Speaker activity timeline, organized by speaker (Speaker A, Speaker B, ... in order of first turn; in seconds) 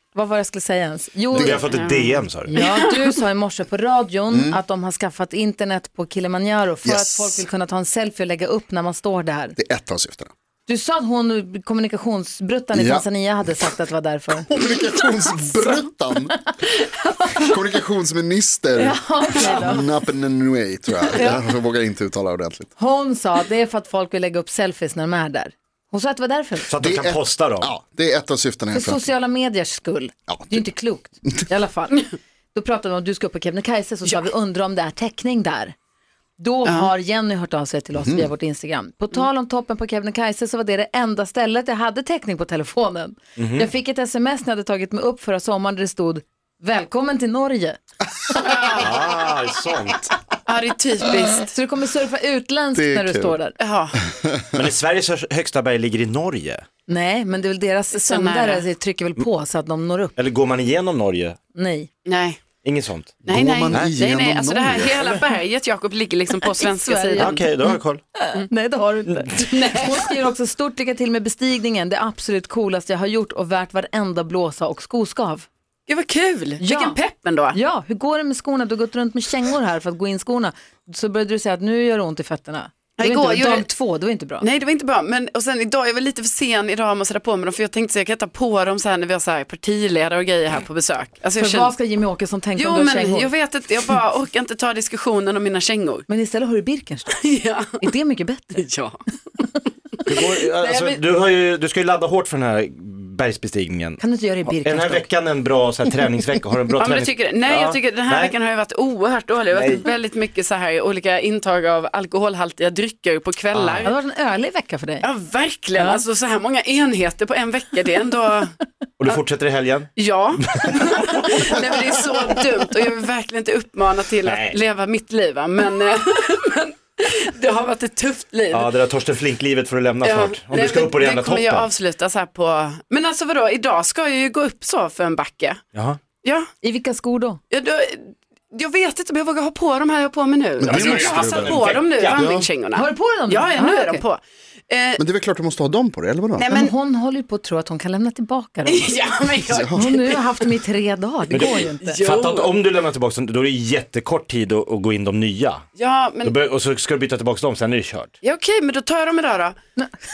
Speaker A: 0.1-9.6, 10.7-14.5, 16.3-17.6, 18.8-19.9, 21.1-21.4, 22.8-26.7, 28.7-35.7, 36.4-48.5, 51.4-53.5, 56.9-60.1, 61.5-61.9, 66.4-67.5, 68.2-75.5, 76.6-77.0, 77.5-84.4, 91.4-93.3, 96.1-97.2, 97.8-98.6, 104.0-105.0, 113.8-115.1, 136.6-137.4, 142.7-144.0, 146.5-148.9, 149.6-152.0
Speaker B: 1.3-1.6, 4.3-4.6, 6.8-7.5, 9.6-10.3, 12.7-13.1, 14.4-16.4, 17.4-22.7, 26.8-29.1, 30.3-30.6, 38.0-38.3, 52.7-53.4, 54.1-54.5, 63.2-64.9, 140.6-142.5, 145.0-146.5, 149.5-149.8
Speaker C: 1.3-2.5, 26.6-27.7, 43.4-43.7, 48.7-50.1, 54.5-56.6, 60.1-61.4, 62.6-64.0, 64.9-65.3, 67.2-68.0, 100.0-108.3, 109.5-109.9, 113.5-113.8, 119.0-119.9, 120.5-120.9, 124.2-124.6, 128.5-131.7, 135.7-136.0, 140.7-142.4, 151.3-155.7, 156.2-158.1
Speaker D: 1.7-2.0, 2.5-3.1, 48.4-48.9, 50.5-51.5, 53.6-54.0, 57.9-58.6, 62.0-62.4, 63.3-67.4, 69.6-70.0, 75.9-77.6, 83.0-83.7, 84.4-91.7, 92.5-96.0, 97.1-97.8, 98.5-99.0, 100.0-101.0, 106.8-113.9, 115.0-118.5, 120.0-128.8, 130.0-135.6, 136.2-136.5, 137.5-145.0, 146.4-146.7, 148.7-150.4, 151.3-152.5, 155.8-156.3, 158.2-159.6